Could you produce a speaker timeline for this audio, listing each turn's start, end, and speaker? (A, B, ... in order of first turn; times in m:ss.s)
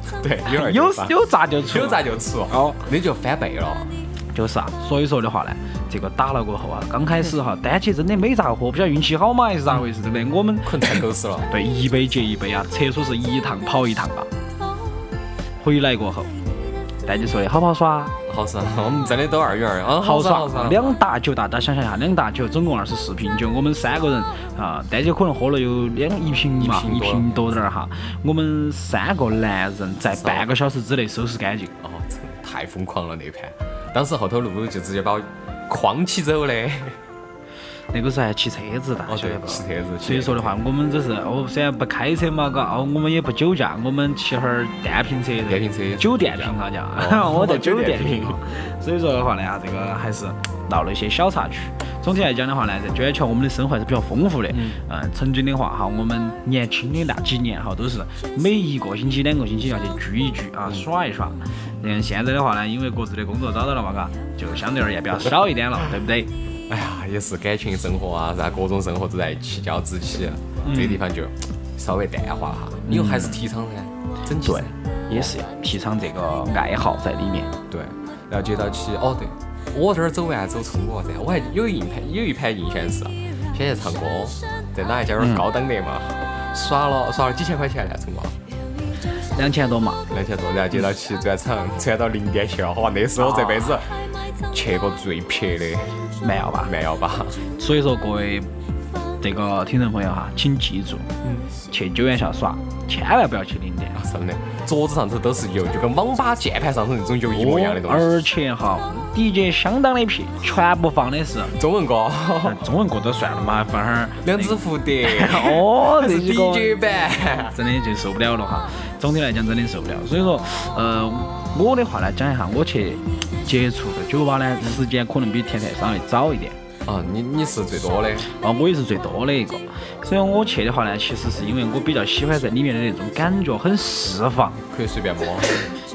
0:00.1-0:03.9 A
0:00.4-0:02.8 B
0:04.3-0:14.3 B
0:10.6-0:11.5 A
0:15.6-0:16.3 B
0:17.0-0:18.1 B
0:18.3-0:21.0 A
0:20.0-0:31.7 B
0:26.6-0:27.5 A
0:30.1-0:30.5 A
0:31.8-0:37.0 A
0:37.9-1:06.3 B
0:39.1-0:40.6 A
0:45.4-0:48.4 A
0:54.5-0:54.8 A
1:06.7-1:15.3 A
1:10.6-1:11.0 B
1:12.8-1:13.4 B
1:14.4-1:17.5 B
1:17.7-1:28.4 A
1:25.2-1:25.4 B
1:29.2-1:30.0 B
1:30.1-1:33.9 A
1:33.2-1:33.8 B
1:34.5-1:36.0 A
1:36.2-1:36.7 B
1:36.6-1:37.4 A
1:37.6-1:38.5 B
1:39.2-1:41.1 B
1:41.2-1:41.5 A
1:41.7-1:44.0 B
1:43.9-1:48.1 A
1:47.3-1:51.5 B
1:51.5-1:52.6 A
1:52.4-1:56.8 B
1:54.2-1:57.6 A
1:57.4-2:06.6 B
2:06.8-2:08.3 A
2:08.3-2:14.6 B
2:14.7-2:15.7 A